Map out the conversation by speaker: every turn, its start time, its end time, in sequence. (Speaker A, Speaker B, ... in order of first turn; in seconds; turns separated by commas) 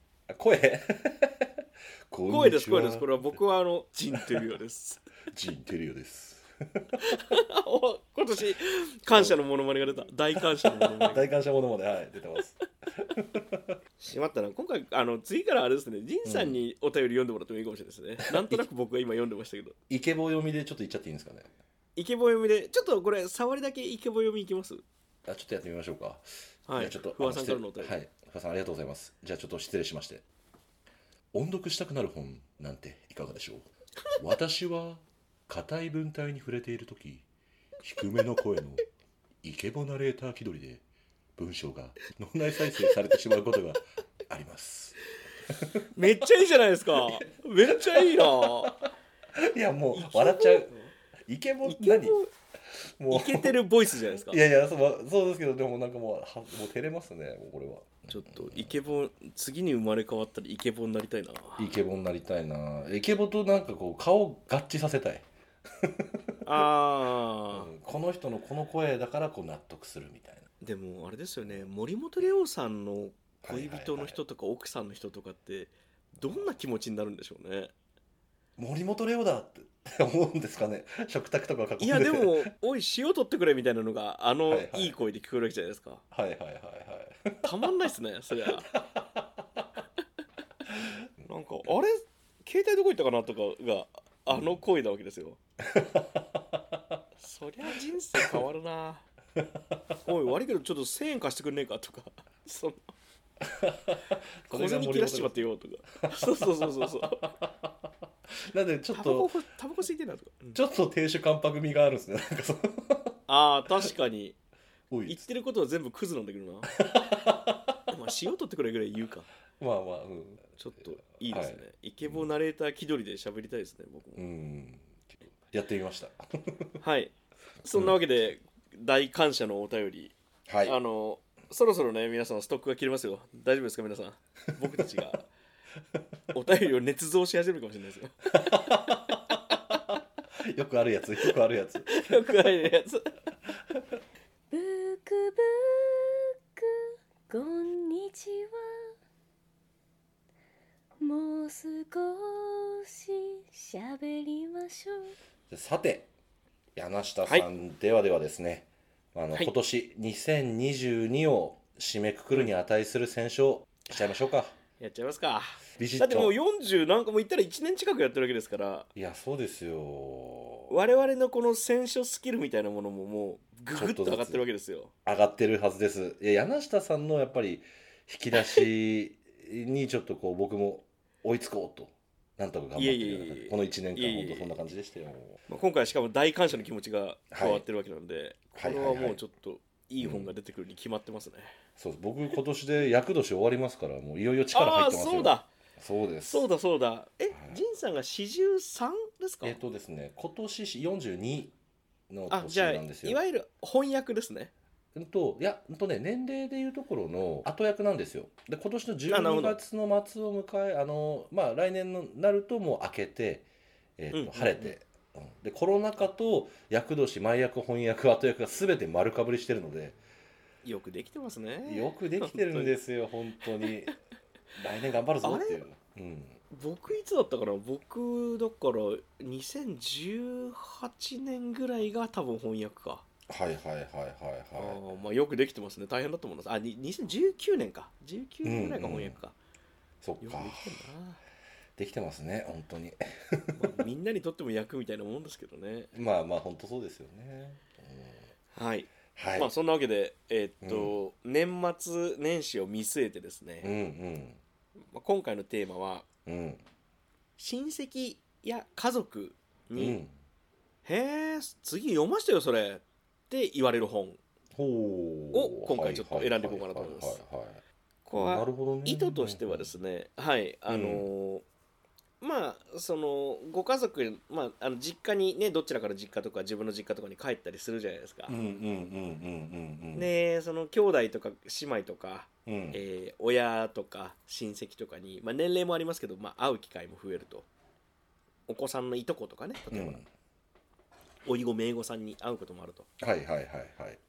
Speaker A: 0.3-3.2, Speaker B: 2.3-5.1, Speaker A: 4.1-4.4, Speaker A: 5.3-7.1, Speaker B: 7.0-11.3, Speaker A: 10.4-13.8, Speaker B: 14.0-19.8, Speaker A: 16.2-16.6, Speaker A: 18.3-18.6, Speaker A: 19.9-21.5, Speaker B: 22.0-24.8, Speaker A: 25.3-30.2, Speaker B: 26.7-28.0, Speaker A: 31.3-37.3, Speaker A: 37.8-38.8, Speaker A: 39.4-40.8, Speaker A: 41.4-45.0, Speaker A: 45.5-45.9, Speaker B: 46.0-48.8, Speaker A: 47.7-50.7, Speaker B: 49.9-50.9, Speaker A: 51.3-52.2, Speaker B: 51.6-52.3, Speaker A: 52.8-53.6, Speaker B: 53.1-54.4, Speaker A: 54.2-58.7, Speaker B: 58.1-61.7, Speaker A: 61.6-66.5, Speaker B: 66.4-67.7, Speaker A: 67.5-70.5, Speaker B: 70.6-77.7, Speaker A: 73.4-74.2, Speaker A: 76.2-76.5, Speaker A: 78.6-82.5, Speaker B: 81.8-86.0, Speaker A: 84.5-85.0, Speaker A: 86.1-87.6, Speaker B: 87.4-88.7, Speaker A: 88.5-89.8, Speaker A: 90.8-91.1, Speaker B: 91.2-95.4, Speaker A: 94.3-94.6, Speaker A: 95.6-97.0, Speaker B: 97.2-99.1, Speaker A: 98.2-98.4, Speaker A: 99.4-99.9, Speaker B: 100.0-102.9, Speaker A: 103.4-105.4, Speaker B: 104.5-107.3, Speaker A: 106.0-107.9, Speaker A: 108.5-109.3, Speaker B: 108.9-110.6, Speaker A: 110.5-113.2, Speaker B: 113.3-114.4, Speaker A: 114.9-115.3, Speaker B: 115.1-116.8, Speaker A: 116.8-117.8, Speaker B: 117.9-119.3, Speaker A: 119.6-120.6, Speaker B: 120.6-124.2, Speaker A: 121.2-122.3, Speaker A: 124.2-126.7, Speaker B: 126.8-135.3, Speaker A: 130.5-130.8, Speaker B: 136.3-139.2, Speaker A: 138.3-139.8, Speaker A: 140.4-142.3, Speaker B: 141.9-143.2, Speaker C: 144.5-148.9, Speaker C: 151.0-155.2, Speaker A: 155.5-156.1, Speaker A: 156.8-164.6, Speaker B: 164.8-168.9, Speaker A: 165.8-166.4, Speaker A: 168.9-170.7, Speaker B: 170.7-174.9, Speaker A: 173.7-174.4, Speaker A: 175.1-185.4, Speaker B: 182.8-184.5, Speaker B: 185.5-191.5, Speaker A: 187.3-187.7, Speaker A: 188.6-189.2, Speaker A: 190.0-190.3, Speaker A: 191.8-196.5, Speaker B: 194.5-195.5, Speaker B: 196.3-199.6, Speaker A: 197.3-197.6, Speaker A: 199.4-201.6, Speaker A: 202.1-203.2, Speaker B: 202.3-204.5, Speaker A: 204.9-213.5, Speaker B: 209.1-209.6, Speaker A: 214.0-220.0, Speaker B: 214.1-214.7, Speaker B: 220.6-222.8, Speaker A: 221.7-224.0, Speaker A: 224.6-226.4, Speaker B: 225.2-225.6, Speaker B: 226.5-233.0, Speaker A: 233.3-234.8, Speaker B: 234.6-239.3, Speaker A: 238.4-239.2, Speaker A: 240.0-240.9, Speaker B: 240.2-241.2, Speaker A: 241.8-243.7, Speaker B: 243.6-245.9, Speaker A: 245.9-248.3, Speaker B: 248.6-253.7, Speaker A: 249.2-249.5, Speaker A: 250.6-251.0, Speaker A: 253.6-254.4, Speaker B: 254.9-256.1, Speaker A: 256.3-256.6, Speaker B: 257.4-260.0, Speaker A: 259.8-260.1, Speaker B: 260.9-264.2, Speaker A: 264.6-267.6, Speaker B: 265.3-267.2, Speaker B: 268.1-271.4, Speaker A: 268.1-269.7, Speaker A: 270.7-271.1, Speaker B: 272.2-278.4, Speaker A: 278.3-280.1, Speaker B: 279.9-287.5, Speaker A: 282.5-282.8, Speaker B: 288.5-290.0, Speaker A: 289.7-290.1, Speaker B: 291.2-292.9, Speaker A: 293.0-294.0